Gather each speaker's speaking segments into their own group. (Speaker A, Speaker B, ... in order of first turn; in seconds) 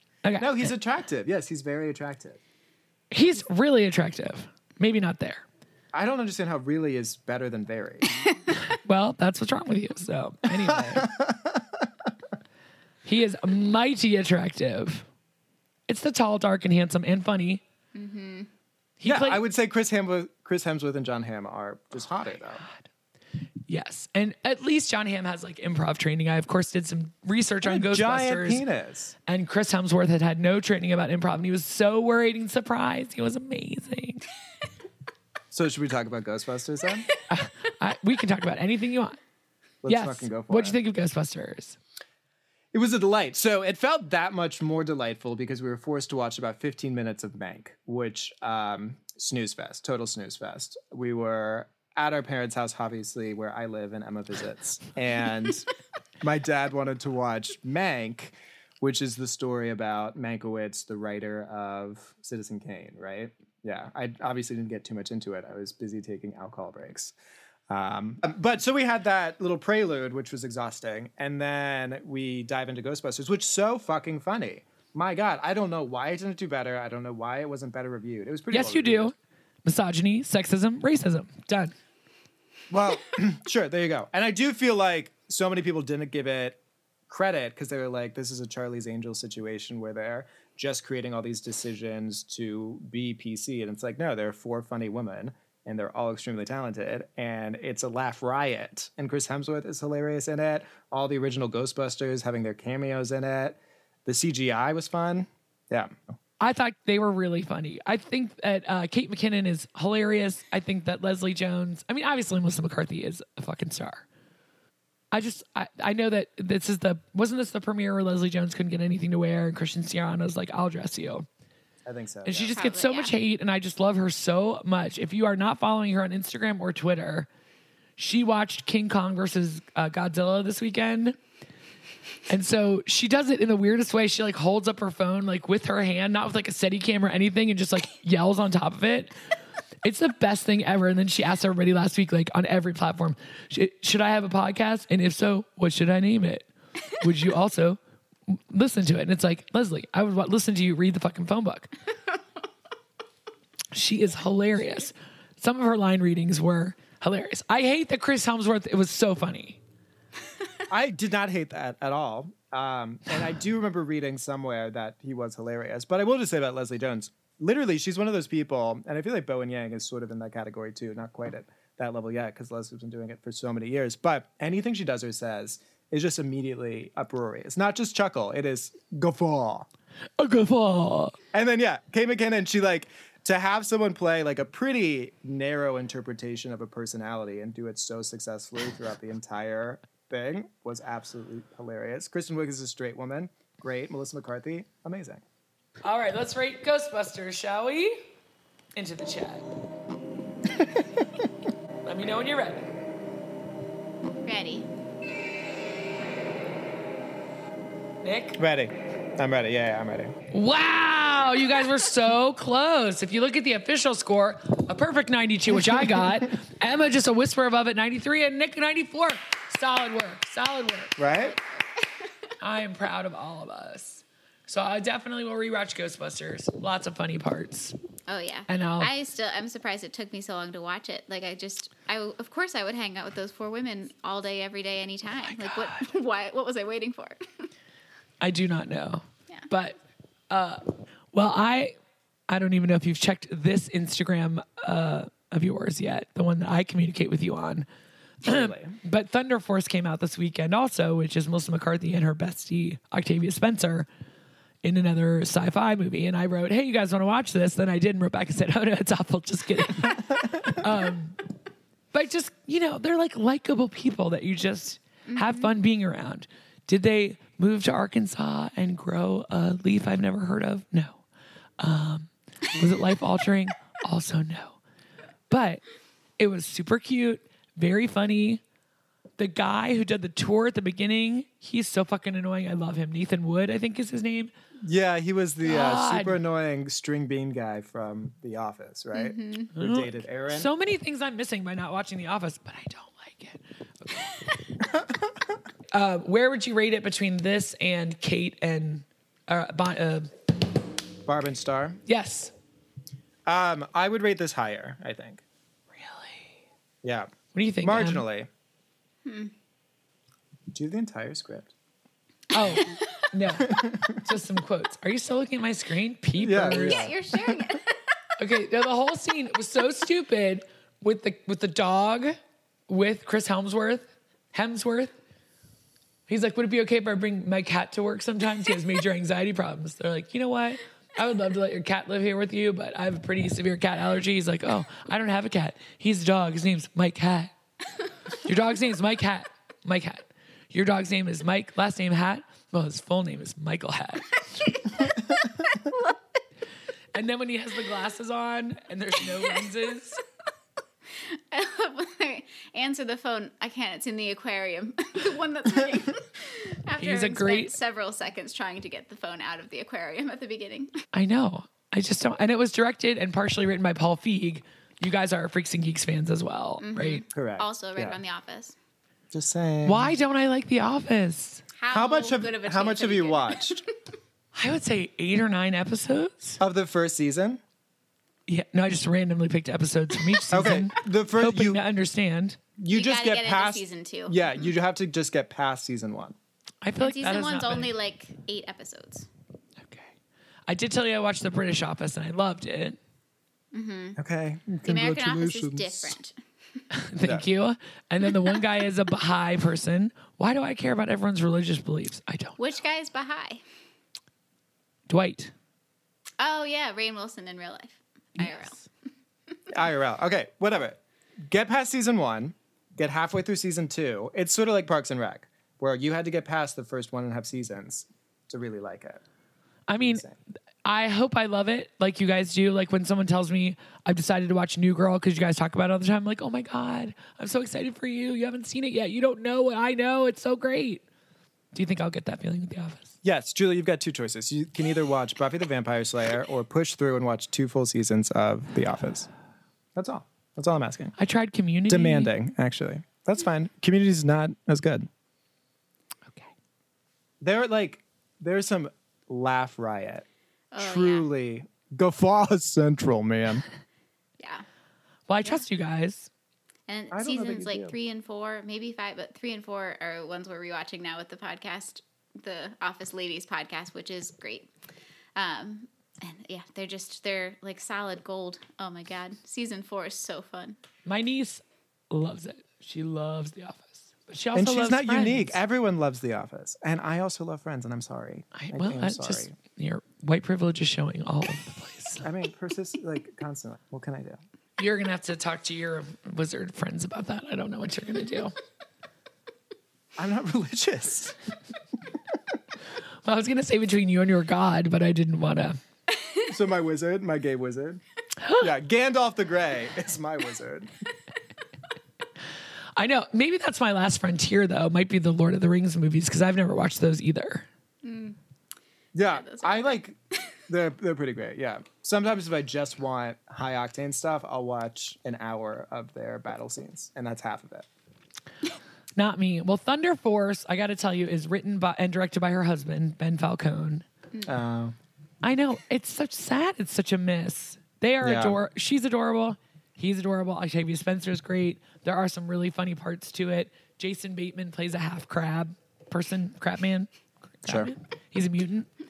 Speaker A: 0.2-0.7, 3.1-5.5, 8.7-11.1, 13.1-15.1, 15.9-17.6, 19.0-19.4, 23.7-28.6, 29.3-34.2, 37.3-39.2, 39.9-41.8, 78.5-79.1, 79.7-81.8, 106.4-114.0, 115.1-121.3, 122.3-127.3, 128.0-131.2, 132.3-139.2, 139.8-151.7, 153.7-159.6, 180.2-181.2, 195.8-198.0, 198.8-199.4, 201.8-202.7, 208.0-208.4, 210.3-221.0, 222.4-227.8, 228.5-228.9, 235.3-235.8, 238.2-239.8, 240.3-241.8, 242.3-247.7, 248.2-253.9, 254.6-261.2, 261.9-271.0, 271.6-274.6, 275.3-275.6, 276.2-278.4, 279.2-284.3, 285.4-286.2, 289.6-294.2, 295.7-300.1, 301.9-302.3, 305.7-306.3, 307.3-308.1, 312.3-316.9, 318.2-322.2, 322.7-324.9, 326.1-337.3, 338.2-344.6, 346.9-350.0, 356.8-357.5, 360.9-367.0, 369.6-371.4, 374.3-376.4, 378.3-382.4, 386.6-387.7, 389.6-389.9, 390.5-392.8, 396.7-402.5, 404.9-405.3, 408.2-408.6, 419.7-420.0, 420.6-430.8, 431.5-432.9, 441.0-442.1, 455.1-456.1, 470.9-475.4, 478.3-482.1, 484.6-488.3, 493.1-495.6, 502.8-507.5, 519.0-523.8, 525.2-536.9, 537.4-538.7
Speaker B: 0.4-2.4, 5.9-8.2, 10.6-11.9, 19.1-22.6, 27.6-29.1, 35.5-37.1, 39.8-40.8, 42.7-55.7, 56.2-67.1, 67.7-79.1, 82.7-105.9, 121.9-122.5, 160.7-179.7, 181.3-195.2, 208.4-210.2, 221.0-221.4, 248.2-248.8, 284.6-290.5, 301.1-301.8, 303.3-305.2, 306.8-308.3, 310.5-311.5, 313.5-314.0, 316.2-317.4, 367.1-368.0, 369.1-369.9, 371.7-373.7, 376.4-377.4, 380.3-381.6, 382.6-386.2, 394.0-396.0, 409.5-419.0, 419.8-420.2, 433.0-439.1, 439.8-440.9, 441.7-444.9, 447.2-450.1, 450.6-453.4, 456.9-457.8, 474.4-479.3, 482.0-484.2, 490.0-491.2, 496.3-500.7, 508.9-509.9, 510.5-517.7, 524.3-524.8, 528.0-528.4, 537.5-537.7
Speaker C: 17.9-18.5, 122.5-123.2, 204.2-204.7, 221.8-222.0, 228.1-237.5, 265.1-265.5, 288.9-289.5, 309.0-309.3, 316.5-317.8, 345.6-345.9, 351.1-360.8, 366.6-368.6, 371.6-373.7, 382.7-384.5, 386.8-389.1, 393.5-394.0, 394.6-396.6, 402.4-403.4, 406.2-408.6, 450.5-451.1, 454.2-454.4, 456.7-464.5, 465.1-470.6, 507.8-508.2, 509.0-509.8